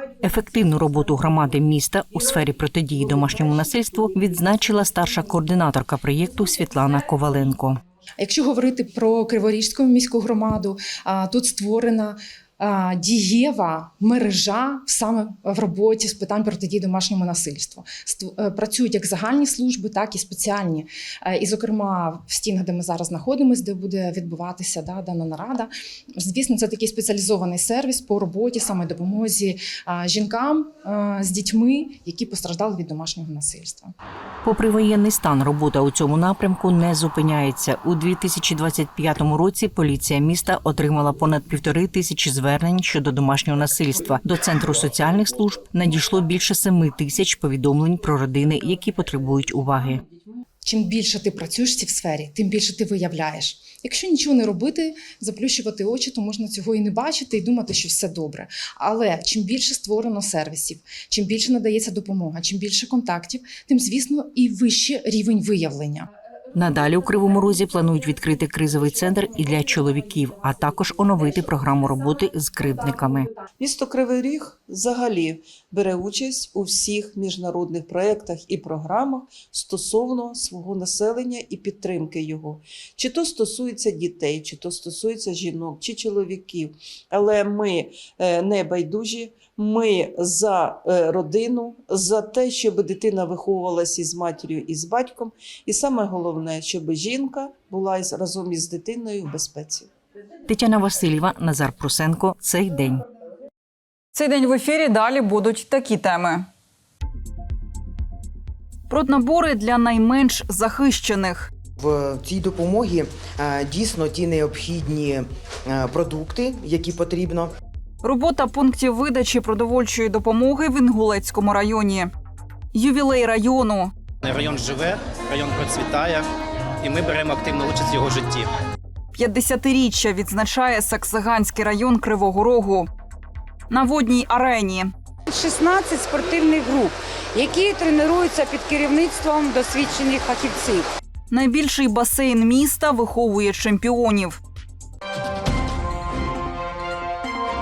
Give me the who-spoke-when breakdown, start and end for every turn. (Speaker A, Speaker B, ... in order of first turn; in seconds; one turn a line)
Speaker A: 0.2-7.8
Speaker B: 8.2-33.9
Speaker A: 34.4-50.0
Speaker B: 50.6-66.1
Speaker A: 66.5-73.3
Speaker C: 73.6-99.9
Speaker A: 100.5-103.0
Speaker D: 104.1-106.5
Speaker D: 108.9-111.5
Speaker E: 111.8-117.5
Speaker D: 118.0-122.1
Speaker D: 122.7-123.9
Speaker F: 124.3-126.2
Speaker F: 126.8-128.4
Speaker D: 129.1-132.9
Speaker D: 133.7-134.9
Speaker G: 135.3-140.9
Speaker D: 141.3-144.4